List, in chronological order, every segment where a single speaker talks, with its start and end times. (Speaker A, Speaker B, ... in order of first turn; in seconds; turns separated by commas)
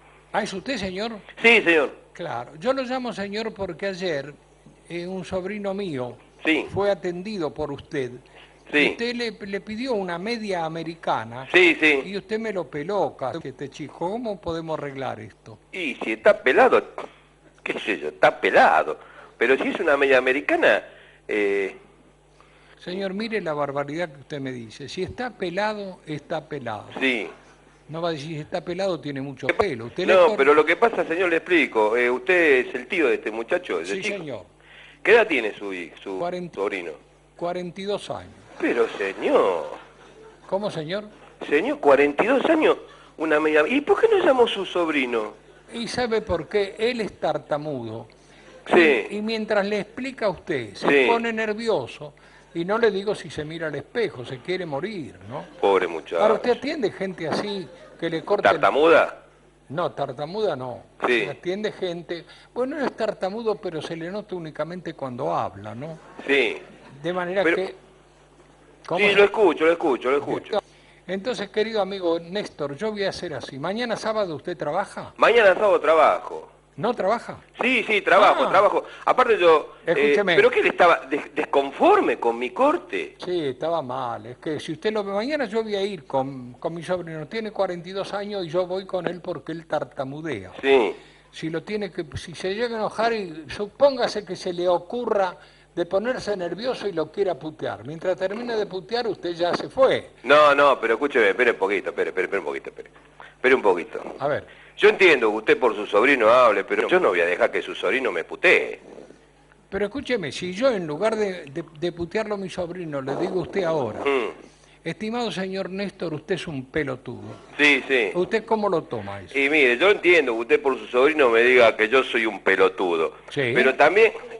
Speaker A: 0.3-1.2, Speaker B: 1.4-1.9, Speaker A: 2.1-8.2, Speaker B: 6.4-6.7, Speaker B: 8.7-9.0, Speaker A: 8.7-15.6, Speaker B: 11.5-12.1, Speaker B: 15.7-17.0, Speaker B: 17.6-21.8, Speaker A: 22.8-27.0, Speaker B: 26.9-27.3, Speaker A: 27.9-30.5, Speaker B: 30.0-34.2, Speaker A: 33.9-34.5, Speaker B: 35.0-37.0, Speaker A: 36.2-36.6, Speaker A: 37.4-38.4, Speaker B: 38.6-39.8, Speaker A: 40.5-41.1, Speaker B: 41.4-45.3, Speaker A: 45.7-48.1, Speaker B: 48.7-49.1, Speaker A: 48.7-55.5, Speaker B: 50.8-51.2, Speaker B: 55.6-56.6, Speaker A: 56.2-58.7, Speaker B: 58.4-59.1, Speaker A: 59.7-66.0, Speaker B: 61.0-61.3, Speaker B: 66.2-66.6, Speaker A: 67.0-67.8, Speaker A: 68.8-69.3, Speaker B: 68.9-70.6, Speaker A: 70.2-75.1, Speaker B: 75.2-76.5, Speaker A: 76.8-77.4, Speaker B: 77.6-83.1, Speaker A: 78.2-78.7, Speaker A: 79.8-80.5, Speaker A: 83.2-90.6, Speaker B: 90.6-91.0, Speaker A: 91.3-100.1, Speaker B: 100.2-102.9, Speaker B: 103.4-104.1, Speaker A: 104.2-104.5, Speaker B: 104.8-108.8, Speaker A: 109.7-114.1, Speaker B: 114.0-114.3, Speaker A: 114.8-117.4, Speaker B: 117.5-118.2, Speaker A: 118.1-119.4, Speaker B: 119.3-124.2, Speaker A: 123.3-123.7